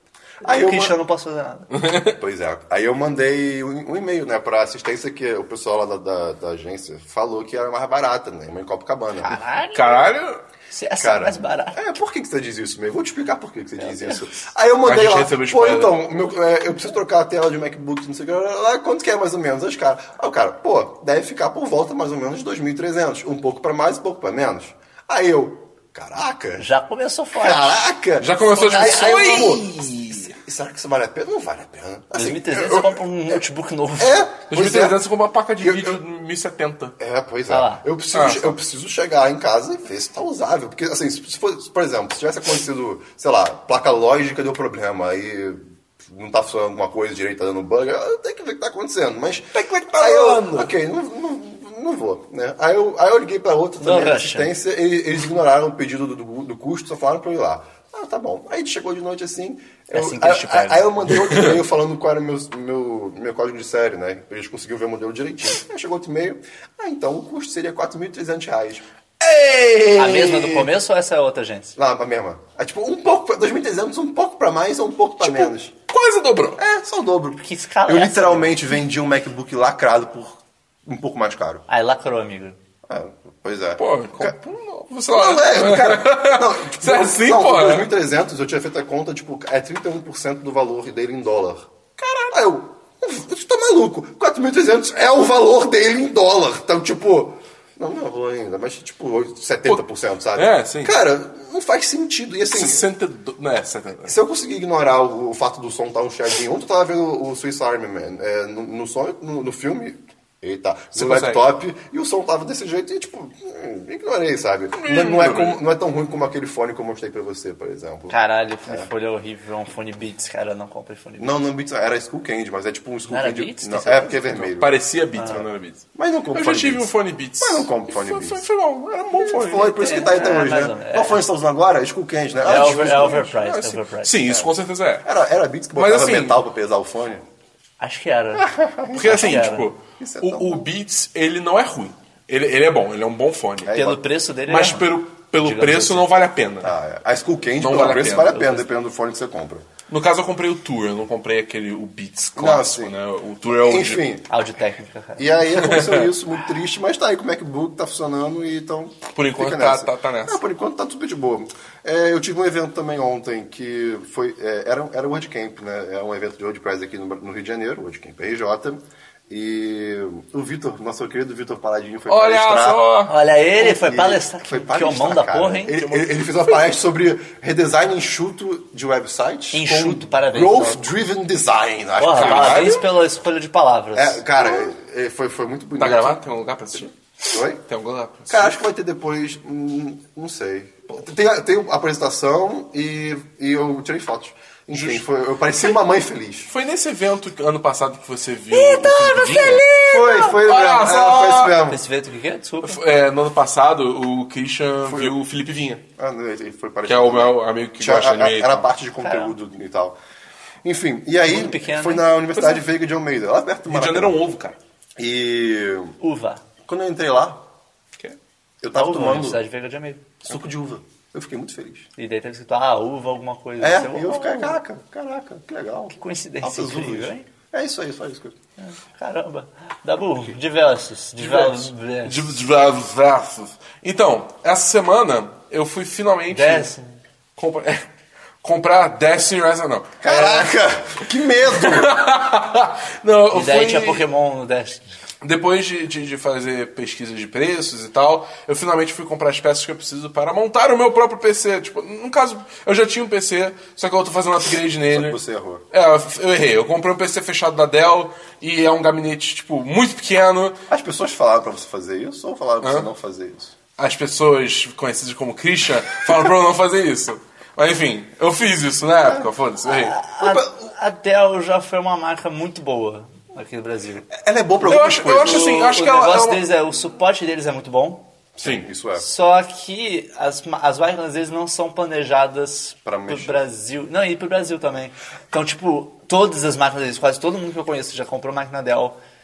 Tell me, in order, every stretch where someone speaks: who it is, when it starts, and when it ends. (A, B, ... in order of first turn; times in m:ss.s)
0:00.4-0:00.9 A
0:00.4-0:01.7 B
0:01.7-0:02.2 C
0:02.1-0:09.4 A
0:09.2-0:10.1 B
0:09.7-0:10.4 C
0:10.7-0:11.8 B
0:11.0-0:26.7 A
0:13.8-0:14.2 B
0:14.8-0:16.0 C
0:26.6-0:27.9 B
0:27.4-0:33.4 A
0:28.2-0:30.3 C
0:28.6-0:29.6 B
0:32.1-0:34.2 B
0:34.0-0:35.0 A
0:34.5-0:36.9 C
0:35.6-0:36.0 A
0:37.0-1:08.8 A
0:37.5-0:37.8 B
0:38.1-0:38.6 C
0:49.5-0:50.7 C
0:53.8-0:54.5 B
0:59.9-1:01.1 B
1:01.2-1:01.5 C
1:09.2-1:10.7 C
1:09.9-1:11.7 B
1:11.8-1:15.7 A
1:15.2-1:16.6 C
1:16.6-1:21.6 A
1:17.4-1:18.6 B
1:21.7-1:22.6 B
1:22.9-1:24.4 A
1:23.8-1:27.9 C
1:25.1-1:31.7 A
1:32.0-1:32.3 C
1:32.3-1:42.8 A
1:40.3-1:41.0 C
1:42.5-1:44.2 C
1:44.0-1:58.2 A
1:50.9-1:51.5 C
1:54.8-1:55.6 C
1:58.1-2:01.4 B
2:01.2-2:04.8 A
2:03.1-2:04.5 B
2:04.6-2:10.0 C
2:05.1-2:05.4 B
2:05.9-2:08.4 A
2:09.1-2:13.3 A
2:09.7-2:11.2 B
2:12.4-2:14.2 B
2:12.5-2:15.1 C
2:14.2-2:14.5 A
2:15.0-2:17.2 A
2:15.7-2:16.4 C
2:17.8-2:19.7 B
2:18.4-2:20.7 A
2:18.9-2:23.9 C
2:23.6-2:24.0 A
2:23.7-2:26.0 B
2:24.5-2:26.8 C
2:26.6-2:29.7 A
2:27.6-2:28.5 C
2:28.3-2:28.6 B
2:29.9-2:34.0 C
2:32.4-2:34.3 A
2:34.3-2:35.4 B
2:35.2-2:52.8 A
2:35.6-2:36.1 C
2:39.1-2:40.4 C
2:52.1-2:53.1 C
2:53.1-2:55.8 B
2:53.6-3:02.8 A
2:55.7-2:56.6 C
2:59.5-3:00.8 B
3:02.0-3:04.2 B
3:02.1-3:02.8 C
3:03.9-3:06.2 A
3:05.8-3:06.9 C
3:07.3-3:07.6 A
3:07.7-3:08.6 C
3:08.3-3:16.5 A
3:14.7-3:15.0 C
3:16.5-3:21.6 C
3:18.5-3:20.4 B
3:19.8-3:21.8 A
3:21.6-3:22.8 B
3:22.6-3:25.8 C
3:24.8-3:25.1 A
3:26.0-3:30.0 A
3:26.8-3:28.7 C
3:29.0-3:29.3 B
3:30.6-3:34.2 A
3:31.2-3:32.1 B
3:33.7-3:34.6 C
3:35.0-3:36.0 A
3:36.0-3:36.4 B
3:36.6-3:37.4 A
3:38.6-3:39.4 A
3:38.7-3:40.2 B
3:40.2-3:41.9 A
3:42.0-3:44.6 B
3:43.6-3:48.4 A
3:45.9-3:47.3 B
3:48.6-3:52.4 B
3:51.2-3:56.7 C
3:56.3-3:57.0 B
3:57.4-3:57.8 C
3:58.4-4:00.5 C
4:00.0-4:01.9 A
4:01.4-4:04.1 C
4:03.3-4:04.9 B
4:05.2-4:15.2 C
4:14.9-4:15.6 A
4:15.7-4:20.6 C
4:20.7-4:23.5 A
4:22.6-4:22.9 C
4:23.8-4:30.0 C
4:29.7-4:34.1 B
4:30.2-4:30.5 A
4:34.1-4:35.6 A
4:34.6-4:36.4 C
4:35.0-4:38.1 B
4:38.4-4:39.0 A
4:38.4-4:38.7 C
4:39.0-4:49.0 B
4:42.8-4:43.4 A